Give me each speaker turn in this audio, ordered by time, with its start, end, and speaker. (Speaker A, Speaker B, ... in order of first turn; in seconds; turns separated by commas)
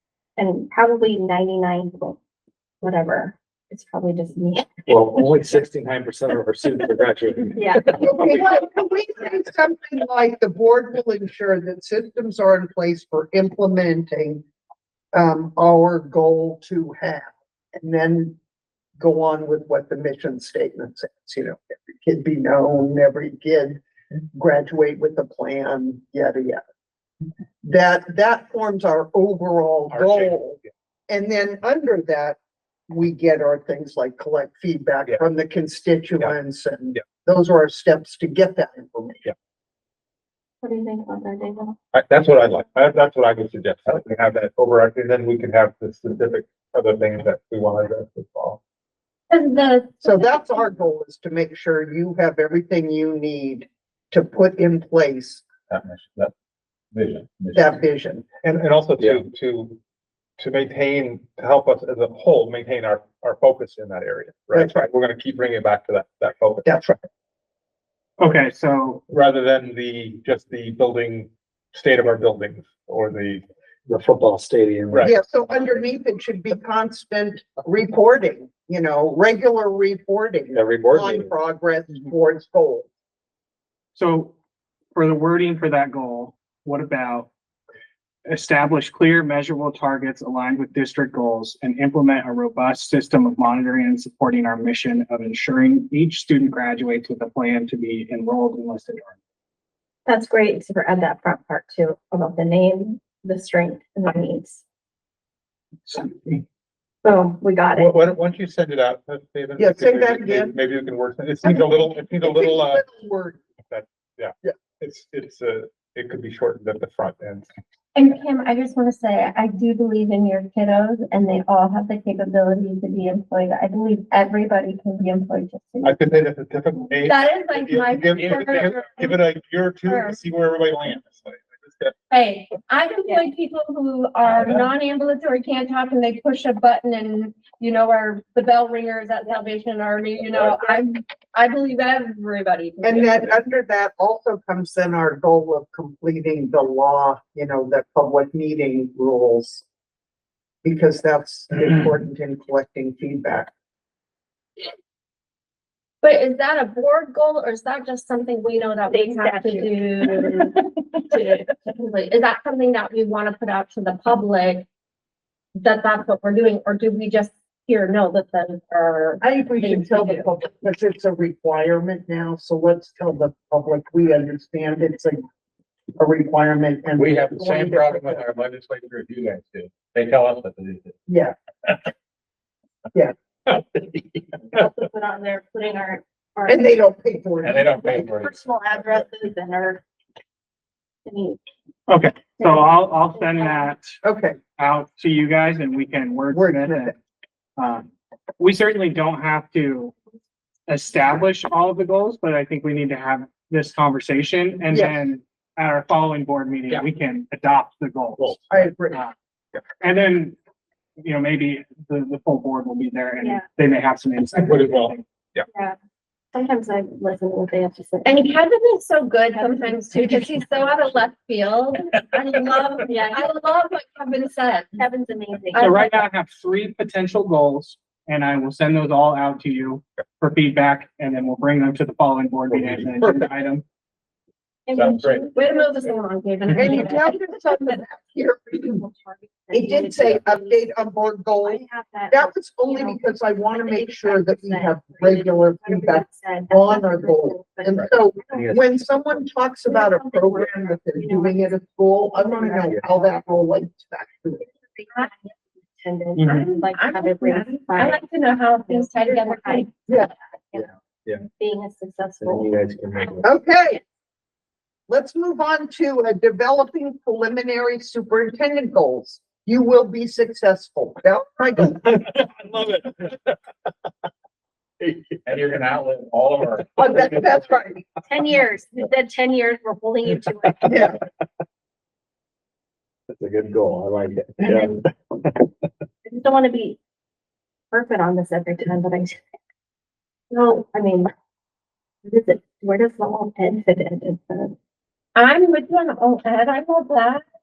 Speaker A: 0.4-2.2, Speaker A: 2.8-4.7, Speaker B: 4.9-8.1, Speaker A: 7.6-8.2, Speaker C: 8.0-14.4, Speaker C: 15.1-18.4, Speaker C: 19.0-23.8, Speaker C: 24.3-26.6, Speaker C: 27.6-32.4, Speaker D: 29.9-30.5, Speaker C: 32.9-39.2, Speaker A: 40.6-41.8, Speaker D: 41.9-48.6, Speaker E: 49.3-50.6, Speaker C: 50.0-55.4, Speaker D: 55.7-56.3, Speaker D: 56.9-57.7, Speaker C: 57.5-58.2, Speaker D: 58.4-59.8, Speaker D: 60.4-66.7, Speaker C: 64.5-64.8, Speaker C: 66.7-67.0, Speaker F: 68.2-69.0, Speaker D: 69.1-73.4, Speaker B: 73.9-75.1, Speaker C: 75.0-82.9, Speaker B: 80.5-81.3, Speaker F: 83.9-84.3, Speaker F: 84.9-87.3, Speaker F: 88.3-99.1, Speaker A: 100.0-104.6, Speaker A: 107.0-107.9, Speaker D: 107.7-112.8, Speaker C: 109.6-110.5, Speaker C: 111.4-113.4, Speaker D: 113.7-117.5, Speaker E: 117.9-122.5, Speaker A: 121.2-125.9, Speaker D: 125.8-131.9, Speaker E: 127.0-129.2, Speaker G: 128.2-128.6, Speaker E: 129.8-130.2, Speaker E: 132.1-143.3, Speaker A: 133.0-133.3, Speaker D: 134.2-134.6, Speaker C: 142.8-149.6, Speaker C: 150.6-153.5, Speaker E: 156.0-164.7, Speaker A: 158.9-161.4, Speaker E: 165.6-170.3, Speaker C: 169.2-175.2, Speaker C: 176.0-178.3, Speaker G: 177.0-180.9, Speaker C: 181.1-181.3, Speaker A: 184.5-186.8, Speaker C: 186.5-188.0, Speaker G: 187.4-188.8, Speaker A: 187.9-189.8, Speaker A: 191.0-191.4, Speaker F: 191.9-194.0, Speaker A: 192.4-193.7, Speaker C: 194.0-194.4, Speaker F: 194.6-196.9, Speaker C: 196.3-196.9, Speaker F: 197.6-197.9, Speaker F: 198.4-199.9, Speaker F: 200.7-208.3, Speaker C: 204.7-205.1, Speaker D: 208.2-208.7, Speaker C: 208.5-209.0, Speaker F: 209.8-210.3, Speaker F: 211.0-215.0, Speaker D: 214.3-215.4, Speaker A: 216.3-218.3, Speaker E: 218.0-224.8, Speaker A: 219.3-221.1, Speaker A: 222.8-223.3, Speaker A: 224.8-226.0, Speaker F: 225.5-233.6, Speaker D: 232.5-233.3, Speaker A: 234.7-237.0, Speaker D: 234.7-235.2, Speaker E: 235.3-237.7, Speaker C: 236.5-238.8, Speaker A: 238.5-240.7, Speaker C: 239.5-254.4, Speaker A: 241.4-248.7, Speaker B: 248.3-249.3, Speaker A: 249.6-251.6, Speaker A: 252.1-253.2, Speaker A: 254.6-258.0, Speaker E: 256.2-259.7, Speaker A: 258.6-259.9, Speaker A: 260.5-263.2, Speaker B: 260.5-261.2, Speaker B: 262.2-263.3, Speaker C: 263.2-263.8, Speaker C: 264.9-271.8, Speaker D: 271.7-273.3, Speaker G: 275.2-277.2, Speaker C: 276.8-277.8, Speaker A: 278.0-280.9, Speaker C: 280.7-280.9, Speaker B: 283.1-285.3, Speaker A: 284.4-284.8, Speaker A: 286.0-286.8, Speaker A: 287.7-289.2, Speaker A: 290.3-291.1, Speaker A: 292.0-294.6, Speaker E: 295.1-297.2